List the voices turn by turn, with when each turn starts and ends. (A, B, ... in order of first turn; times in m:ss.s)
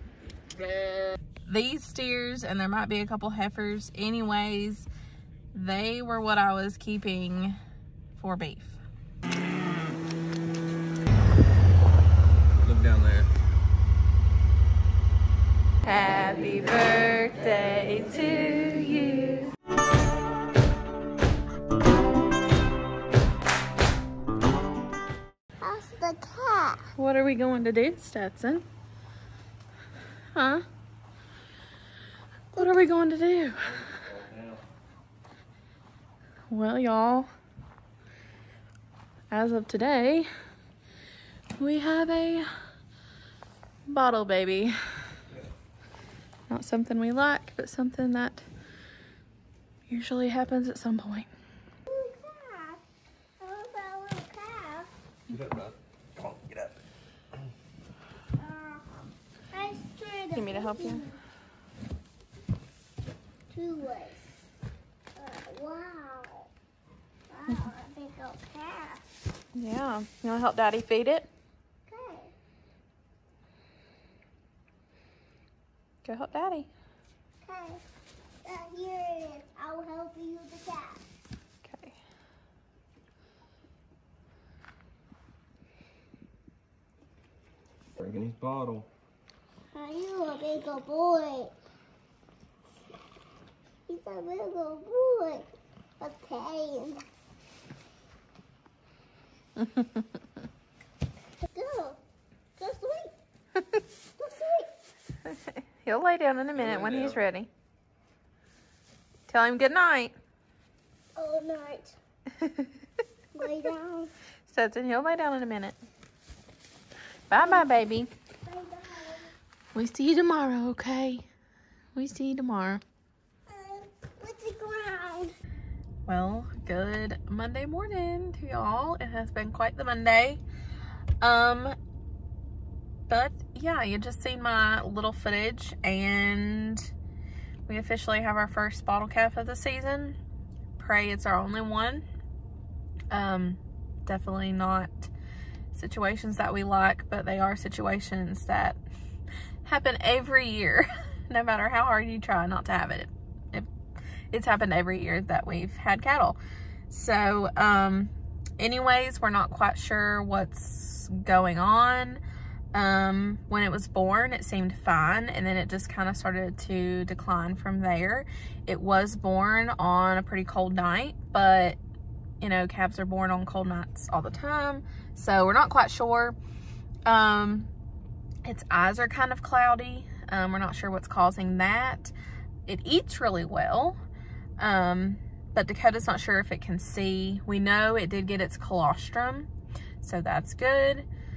0:01.4-0:04.9 A
0:05.5-0:07.6 A
0:08.2-0:08.8 A
0:12.6-0:13.3 B
0:15.8-0:19.5 A
0:25.6-0:26.9 C
0:27.0-0:28.6 A
0:30.3-0:30.6 A
0:32.5-0:33.8 A
0:33.9-0:34.5 B
0:36.5-0:37.3 A
0:39.3-0:40.3 A
0:41.6-0:42.5 A
0:43.9-0:44.8 A
0:46.5-0:48.4 A
0:49.9-0:51.3 A
0:51.9-0:52.8 C
0:53.4-0:54.9 C
0:55.3-0:56.8 B
0:58.4-0:58.8 C
0:59.5-1:01.2 C
1:00.3-1:01.0 A
1:03.5-1:04.2 C
1:05.2-1:06.5 C
1:07.3-1:09.0 C
1:09.5-1:11.3 A
1:11.9-1:12.3 C
1:16.0-1:16.7 A
1:17.4-1:17.8 C
1:18.4-1:21.0 C
1:21.6-1:22.0 A
1:28.0-1:28.9 B
1:29.7-1:31.5 C
1:33.9-1:35.5 C
1:36.0-1:37.0 C
1:39.6-1:39.8 A
1:41.5-1:42.0 C
1:42.6-1:43.1 C
1:44.2-1:44.7 C
1:45.2-1:47.5 A
1:46.6-1:47.2 B
1:49.3-1:50.1 A
1:51.2-1:52.0 C
1:52.4-1:52.7 A
1:53.3-1:54.1 C
1:54.5-1:55.8 A
1:57.3-1:58.1 A
1:58.4-1:59.3 C
1:59.7-2:01.2 A
2:01.9-2:02.8 A
2:03.5-2:05.3 C
2:06.0-2:10.4 A
2:11.2-2:11.7 A
2:13.1-2:16.9 A
2:17.7-2:20.2 A
2:20.8-2:22.0 A
2:23.1-2:25.1 A
2:25.7-2:28.8 A
2:29.6-2:33.7 A
2:34.3-2:36.4 A
2:36.9-2:42.2 A
2:42.7-2:51.8 A
2:52.4-2:56.4 A
2:57.0-2:57.7 A
2:58.4-3:02.1 A
3:02.6-3:04.0 A
3:04.6-3:09.5 A
3:10.0-3:11.0 A